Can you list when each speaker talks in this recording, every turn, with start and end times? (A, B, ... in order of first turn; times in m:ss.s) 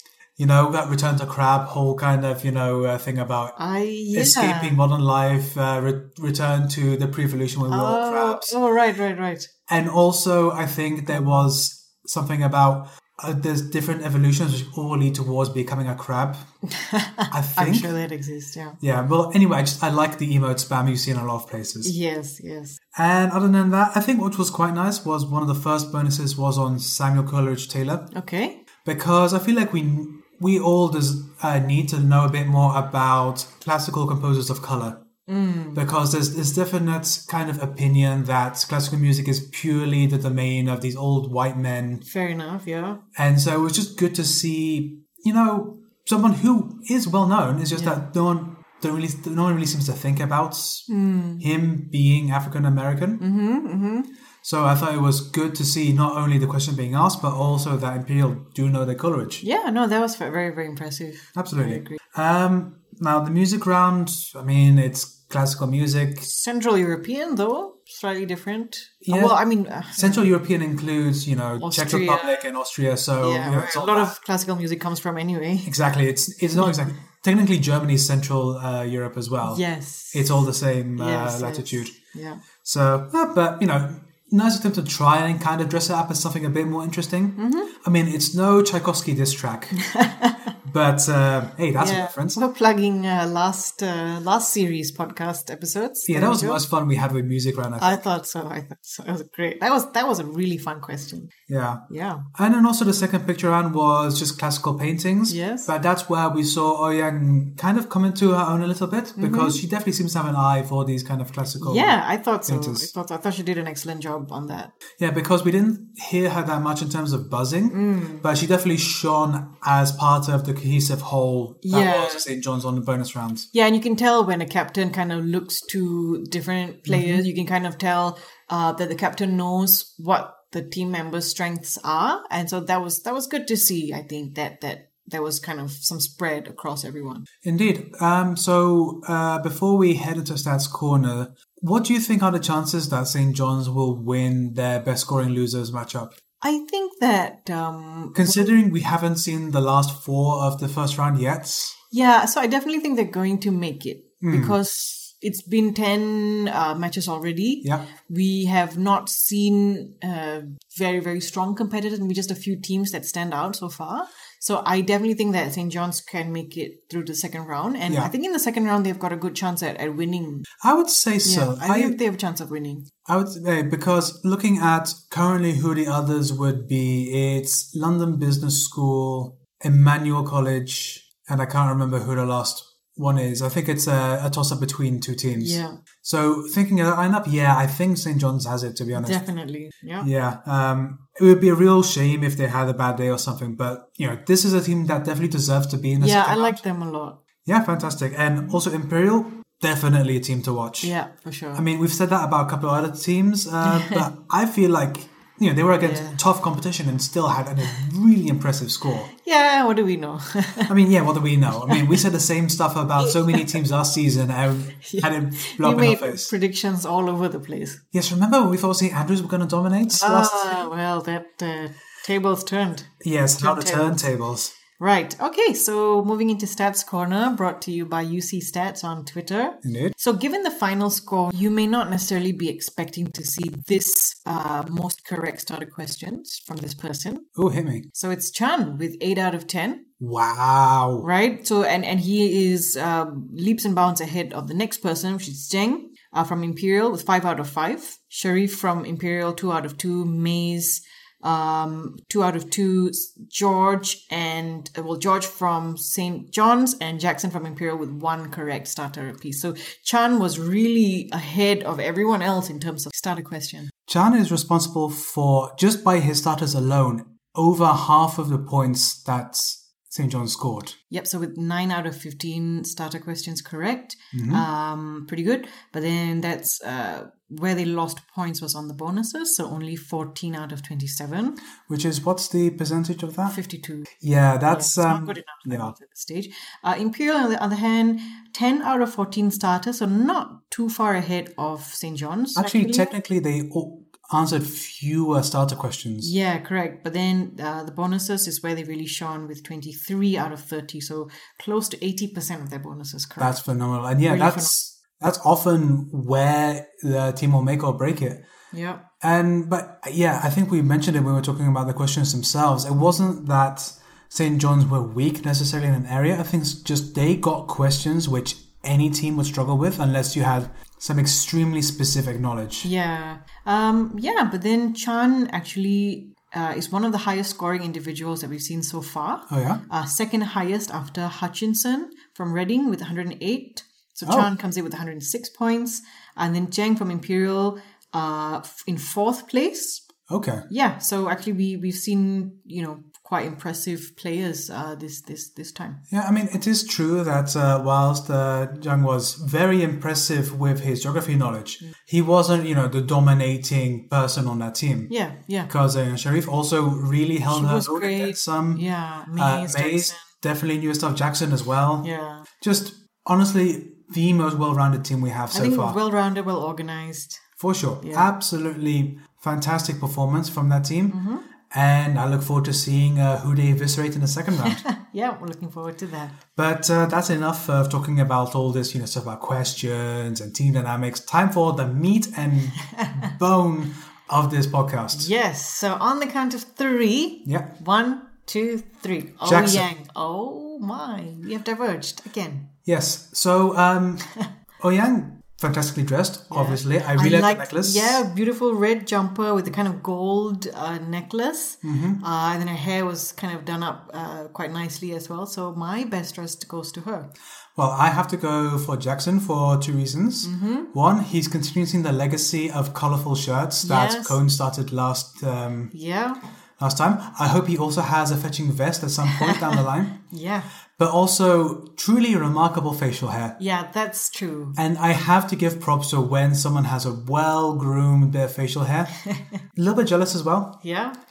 0:00.4-0:03.6 A
0:03.6-0:04.8 B
0:04.1-0:08.6 A
0:07.7-0:09.5 B
0:09.7-0:16.4 A
0:11.1-0:11.5 B
0:16.7-0:18.8 B
0:17.3-0:17.9 A
0:18.8-0:21.9 A
0:21.8-0:22.8 B
0:22.9-0:28.1 A
0:28.1-0:28.6 B
0:28.8-0:35.0 A
0:35.3-0:35.8 B
0:35.7-0:42.0 A
0:42.0-0:43.0 B
0:43.1-0:50.9 A
0:47.7-0:48.0 B
0:50.9-0:51.4 B
0:51.4-0:53.2 A
0:53.2-0:54.1 B
0:54.4-0:59.4 A
0:59.4-1:02.0 B
1:01.3-1:06.3 A
1:06.2-1:10.3 B
1:09.0-1:09.4 A
1:09.9-1:14.2 A
1:11.6-1:12.5 B
1:13.2-1:15.7 B
1:15.6-1:19.6 A
1:19.4-1:20.4 B
1:20.1-1:21.9 A
1:21.0-1:22.4 B
1:22.6-1:29.8 A
1:27.4-1:27.7 B
1:29.7-1:30.5 B
1:30.6-1:32.4 A
1:31.8-1:36.6 B
1:36.0-1:38.0 A
1:37.8-1:41.3 B
1:41.5-1:41.8 A
1:41.9-1:42.3 B
1:42.3-1:52.9 A
1:45.3-1:45.7 B
1:49.2-1:49.6 B
1:51.6-1:54.7 B
1:55.0-2:03.5 A
1:57.7-1:58.3 B
2:01.6-2:02.3 B
2:03.5-2:17.2 B
2:06.8-2:07.3 A
2:17.4-2:26.1 A
2:26.4-2:28.6 B
2:28.1-2:31.8 A
2:31.9-2:50.5 B
2:34.2-2:34.6 A
2:50.6-2:52.0 A
2:51.2-2:52.9 B
2:53.1-3:09.2 A
3:05.4-3:05.8 B
3:08.9-3:10.1 B
3:10.0-3:16.6 A
3:16.0-3:17.2 B
3:17.4-3:20.9 A
3:20.8-3:21.6 B
3:21.5-3:29.1 A
3:23.6-3:24.1 B
3:25.8-3:26.2 B
3:29.1-3:30.7 B
3:30.7-3:36.3 A
3:31.6-3:32.0 B
3:33.0-3:33.4 B
3:34.8-3:37.8 B
3:37.9-3:40.7 A
3:39.9-3:44.1 B
3:43.0-3:44.6 A
3:44.8-3:57.3 B
3:49.6-3:49.9 A
3:57.4-3:57.8 A
3:57.9-3:59.9 B
4:00.0-4:01.1 A
4:01.0-4:23.7 B
4:23.9-4:30.8 A
4:30.9-4:41.4 B
4:34.1-4:34.4 A
4:41.7-4:43.4 A
4:43.3-4:43.9 B
4:44.0-4:45.7 A
4:44.5-4:52.9 B
4:52.3-4:56.1 A
4:56.0-5:03.4 B
5:03.2-5:08.2 A
5:04.0-5:04.6 B
5:08.5-5:08.8 B
5:09.0-5:22.7 A
5:22.6-5:39.9 B
5:29.3-5:29.6 A
5:34.0-5:34.3 A
5:40.1-5:40.5 A
5:40.5-5:45.8 B
5:45.9-5:54.9 A
5:54.9-5:55.5 B
5:55.5-6:01.9 A
5:57.3-6:00.1 B
6:01.8-6:02.3 B
6:02.4-6:05.8 A
6:05.3-6:07.2 B
6:07.4-6:11.0 A
6:07.8-6:08.1 B
6:10.9-6:11.2 B
6:11.5-6:14.6 A
6:14.4-6:16.2 B
6:16.3-6:25.1 A
6:24.9-6:32.5 B
6:29.2-6:29.6 A
6:32.6-6:34.1 A
6:34.6-6:38.0 A
6:36.3-6:47.1 B
6:41.6-6:42.0 A
6:47.6-6:55.7 A
6:50.2-6:50.7 B
6:53.6-6:54.2 B
6:55.7-6:56.2 B
6:56.6-7:00.0 A
6:59.1-7:00.5 B
7:00.8-7:03.4 A
7:03.4-7:04.6 B
7:04.6-7:10.6 A
7:10.6-7:11.0 B